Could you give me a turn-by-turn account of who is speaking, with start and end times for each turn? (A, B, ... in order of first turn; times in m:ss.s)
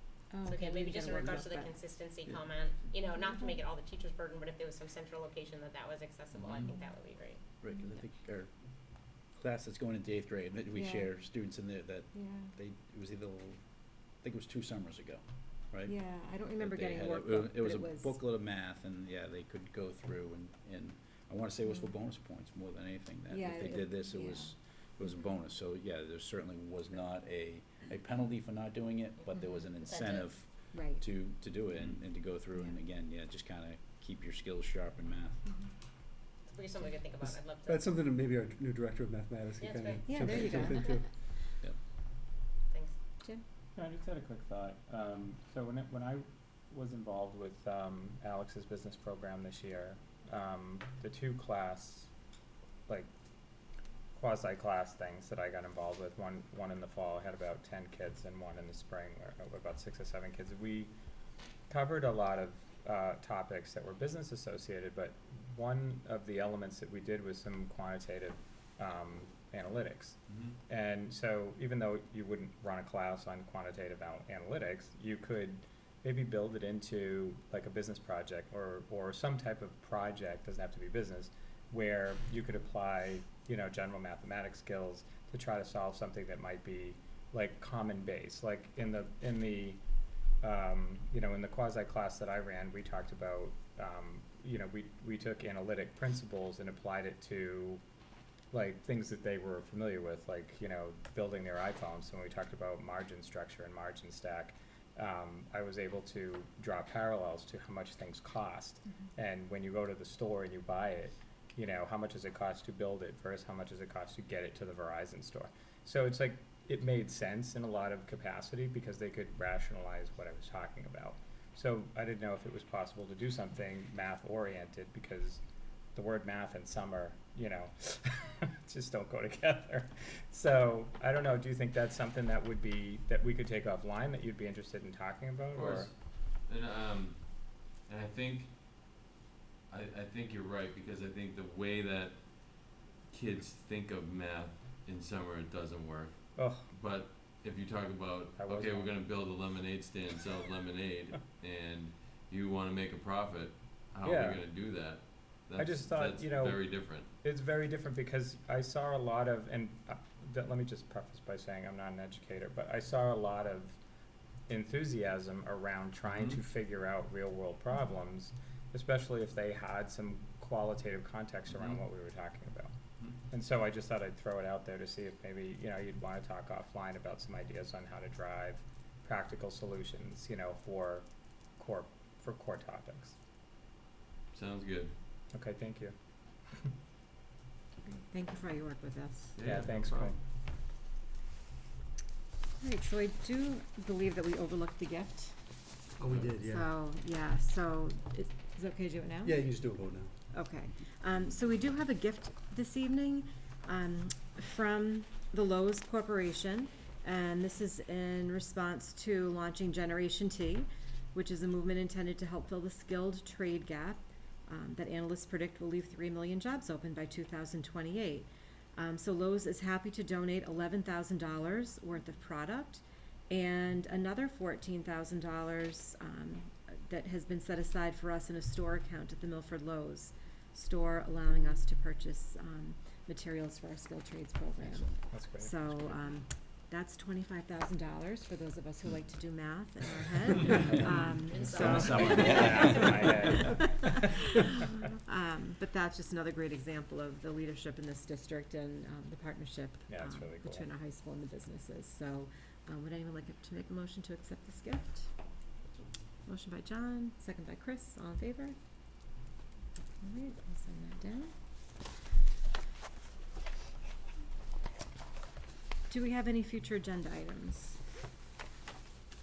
0:00.3-0:01.7 A
0:00.4-0:07.4 B
0:07.6-0:08.5 C
0:09.3-0:16.0 C
0:10.8-0:11.1 A
0:12.1-0:12.5 A
0:15.9-0:18.2 A
0:16.6-0:35.4 C
0:23.3-0:24.5 A
0:29.8-0:30.3 B
0:30.7-0:31.0 A
0:36.4-0:37.9 B
0:37.2-0:41.1 D
0:39.6-0:40.2 B
0:40.0-0:41.0 A
0:43.8-0:52.1 E
0:54.1-1:00.9 E
1:01.7-1:29.8 E
1:10.3-1:10.6 F
1:30.4-1:37.8 E
1:38.5-2:05.4 E
2:06.0-2:15.9 E
2:15.5-2:18.5 F
2:19.7-2:37.1 F
2:26.4-2:26.7 E
2:28.4-2:28.9 E
2:34.0-2:34.4 E
2:35.6-2:43.8 E
2:44.5-2:52.7 E
2:46.1-2:46.4 F
2:51.5-2:51.8 F
2:53.3-3:01.1 E
3:01.6-3:03.2 E
3:04.3-3:04.9 F
3:05.3-3:06.0 E
3:07.8-3:09.4 A
3:09.4-3:10.2 F
3:09.4-3:10.2 E
3:12.6-3:15.4 A
3:16.0-3:16.7 D
3:16.4-3:19.4 A
3:19.2-3:20.2 D
3:20.3-4:15.1 A
3:55.1-3:55.8 E
4:01.2-4:02.9 B
4:01.5-4:03.1 C
4:01.6-4:04.3 E
4:09.9-4:10.7 E
4:16.3-4:18.6 A
4:20.0-4:21.3 A
4:25.9-4:27.8 A